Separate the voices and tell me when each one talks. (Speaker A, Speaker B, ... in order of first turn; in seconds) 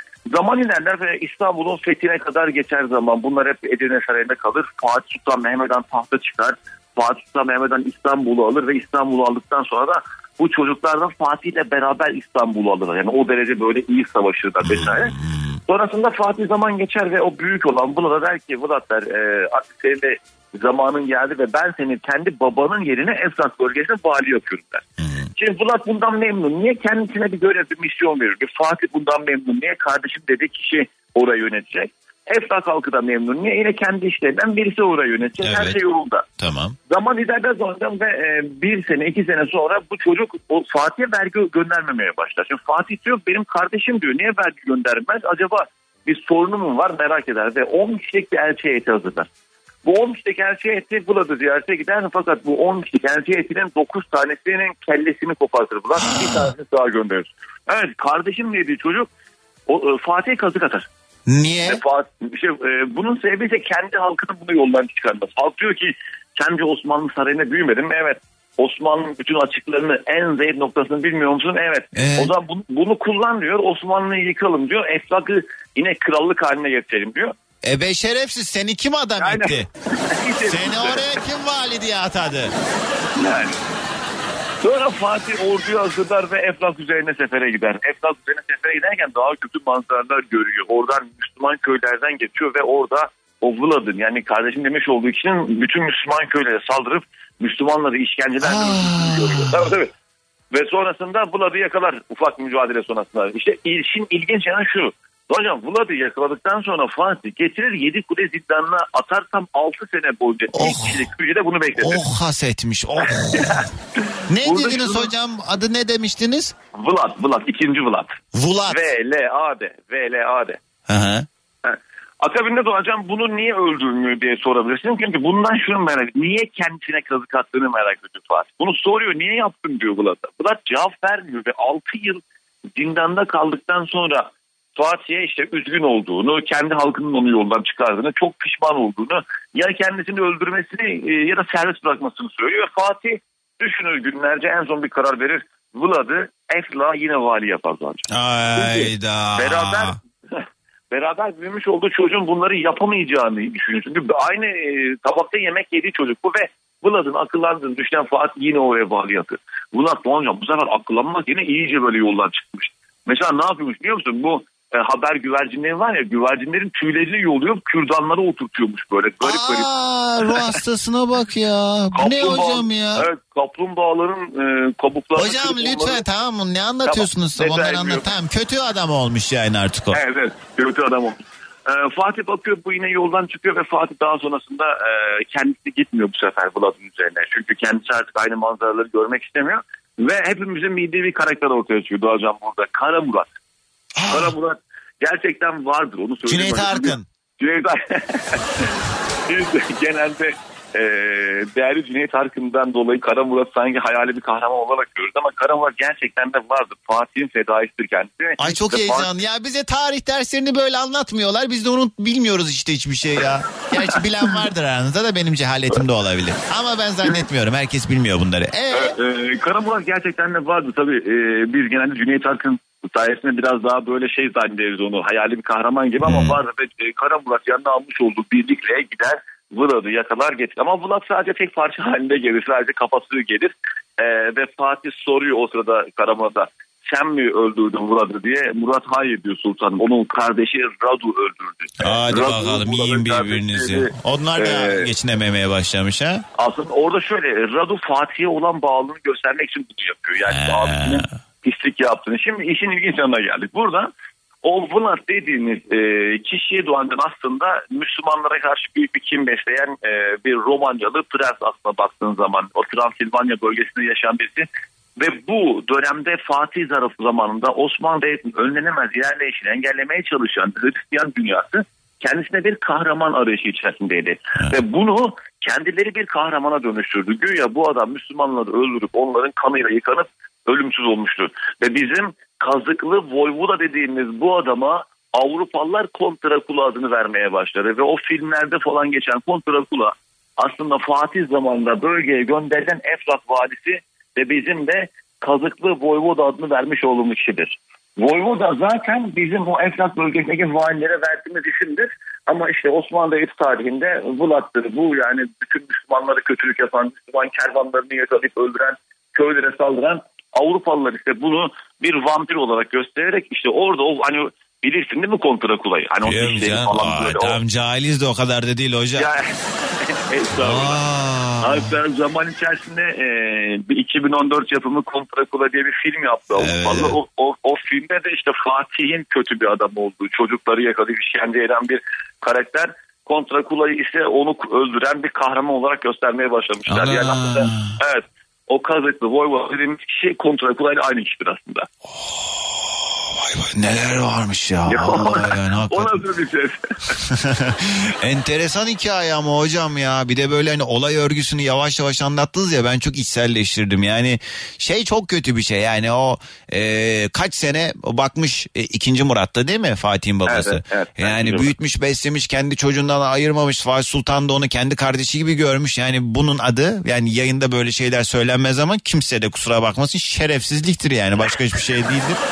Speaker A: 0.3-15.2, 15.7-24.8, 25.4-36.2, 36.9-49.3, 49.8-59.1, 59.7-60.9, 61.6-77.3, 79.2-81.0, 83.2-83.6, 84.6-99.9, 100.5-112.0, 113.1-115.1, 116.8-120.6, 121.6-132.2, 132.8-169.7, 170.3-170.5, 171.9-176.0, 176.8-178.1, 179.9-193.3, 194.1-209.1, 218.7-244.9, 246.4-253.9, 254.4-317.4, 319.0-320.8, 321.4-341.7, 344.7-347.0, 360.3-361.5
Speaker B: 14.6-15.6, 25.0-25.3, 35.4-35.8, 36.4-36.8, 56.0-56.5, 61.3-61.8, 71.9-72.3, 77.6-79.7, 80.5-82.5, 98.4-99.7, 110.5-111.1, 111.8-113.7, 114.3-116.5, 118.3-118.9, 120.9-121.3, 148.1-150.0, 169.2-173.1, 175.2-180.0, 193.9-194.3, 196.3-197.1, 208.4-218.9, 226.0-226.4, 241.8-246.2, 250.3-251.1, 316.0-319.1, 320.4-321.7, 326.4-326.9, 336.7-337.8, 343.2-346.0, 347.0-372.2